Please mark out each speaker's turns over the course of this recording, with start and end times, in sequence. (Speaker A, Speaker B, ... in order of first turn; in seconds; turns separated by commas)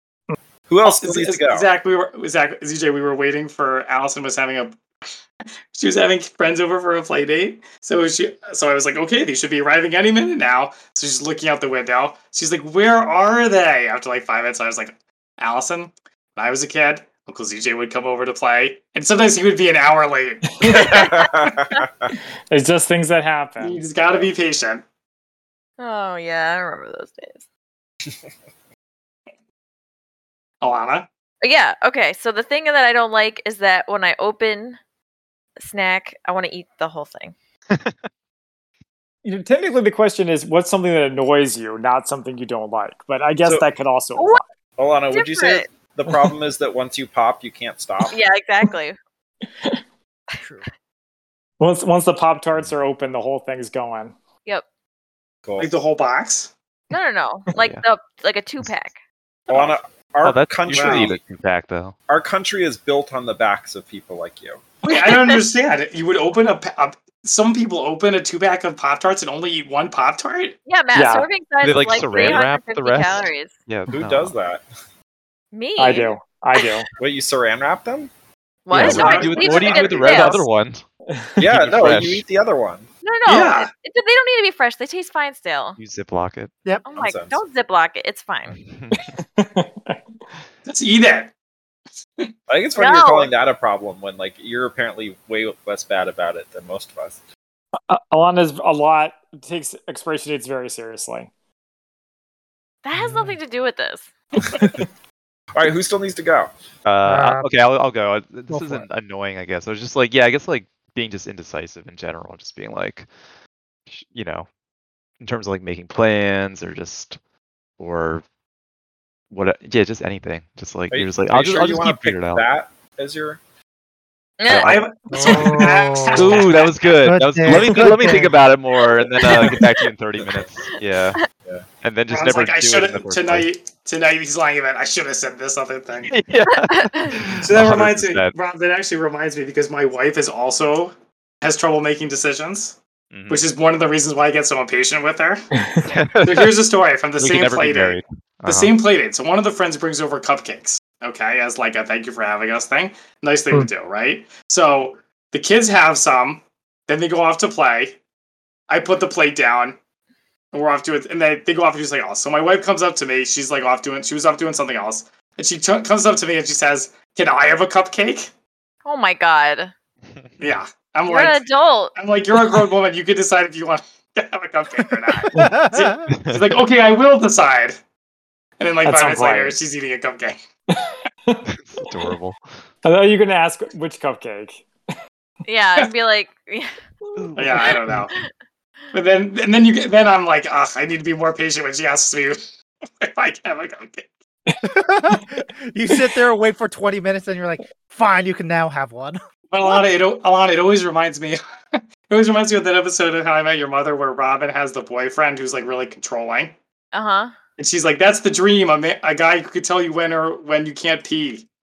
Speaker A: 0.7-1.7, Speaker B: 0.8-4.8, Speaker B: 5.7-20.9, Speaker C: 20.6-20.9, Speaker A: 20.6-22.1, Speaker D: 20.9-21.8, Speaker C: 22.5-23.8, Speaker B: 23.6-24.8, Speaker D: 25.8-27.4, Speaker B: 30.6-31.1, Speaker D: 31.4-34.8, Speaker D: 35.6-37.3, Speaker E: 37.7-38.0, Speaker C: 39.2-44.4, Speaker D: 44.1-44.4, Speaker A: 44.8-48.1, Speaker D: 45.1-45.6, Speaker D: 48.1-49.0, Speaker C: 51.6-54.1, Speaker A: 55.5-55.7, Speaker B: 55.6-56.5, Speaker D: 56.9-59.0, Speaker E: 57.6-57.8, Speaker A: 59.5-61.2, Speaker E: 60.2-62.0, Speaker B: 60.7-61.1, Speaker A: 62.1-64.7, Speaker B: 64.8-70.6, Speaker D: 64.9-65.4, Speaker D: 70.7-73.5, Speaker C: 70.9-71.3, Speaker E: 71.6-74.3, Speaker A: 73.9-74.6, Speaker D: 75.5-76.7, Speaker C: 75.8-76.9, Speaker A: 77.0-78.1, Speaker D: 78.7-80.4, Speaker E: 78.7-80.8, Speaker A: 78.8-80.4, Speaker B: 78.8-80.4, Speaker C: 81.1-81.4, Speaker A: 81.4-82.9, Speaker E: 81.5-82.2, Speaker D: 83.0-85.8, Speaker B: 83.3-83.7, Speaker E: 85.8-86.5, Speaker D: 86.8-88.6, Speaker A: 86.9-87.4, Speaker E: 88.5-89.1, Speaker C: 88.9-90.0, Speaker B: 90.7-91.3, Speaker A: 92.5-97.2, Speaker D: 92.8-93.3, Speaker C: 97.9-101.3, Speaker D: 102.8-104.1, Speaker F: 102.9-103.4, Speaker A: 105.5-106.5, Speaker E: 106.8-113.1, Speaker F: 107.0-107.5, Speaker F: 108.5-108.9, Speaker E: 113.9-114.5, Speaker E: 115.2-117.2, Speaker E: 117.8-118.2, Speaker E: 119.3-122.5, Speaker A: 120.9-123.4, Speaker D: 124.4-124.8, Speaker E: 124.5-131.2, Speaker B: 124.5-126.7, Speaker F: 125.1-126.5, Speaker F: 127.0-128.4, Speaker E: 131.8-133.5, Speaker B: 132.1-136.1, Speaker E: 136.1-138.3, Speaker D: 136.5-137.3, Speaker B: 137.4-142.8, Speaker E: 143.1-143.4, Speaker B: 143.3-145.4, Speaker C: 145.6-145.9, Speaker E: 145.8-146.5, Speaker B: 146.2-158.0, Speaker E: 147.2-148.8, Speaker B: 158.7-159.8, Speaker B: 160.5-168.3, Speaker D: 168.8-169.7, Speaker B: 170.4-177.8, Speaker D: 171.1-171.9, Speaker F: 175.3-176.1, Speaker E: 176.1-176.4, Speaker B: 178.6-180.3, Speaker C: 178.8-179.6, Speaker C: 180.7-181.4, Speaker E: 181.5-182.4, Speaker C: 182.8-184.7, Speaker D: 185.4-186.8, Speaker E: 187.2-188.1, Speaker B: 187.4-188.1, Speaker D: 187.6-188.2, Speaker B: 188.9-192.4, Speaker B: 193.0-194.1, Speaker F: 194.6-199.2, Speaker B: 199.5-206.5, Speaker D: 206.9-207.3, Speaker B: 207.6-211.5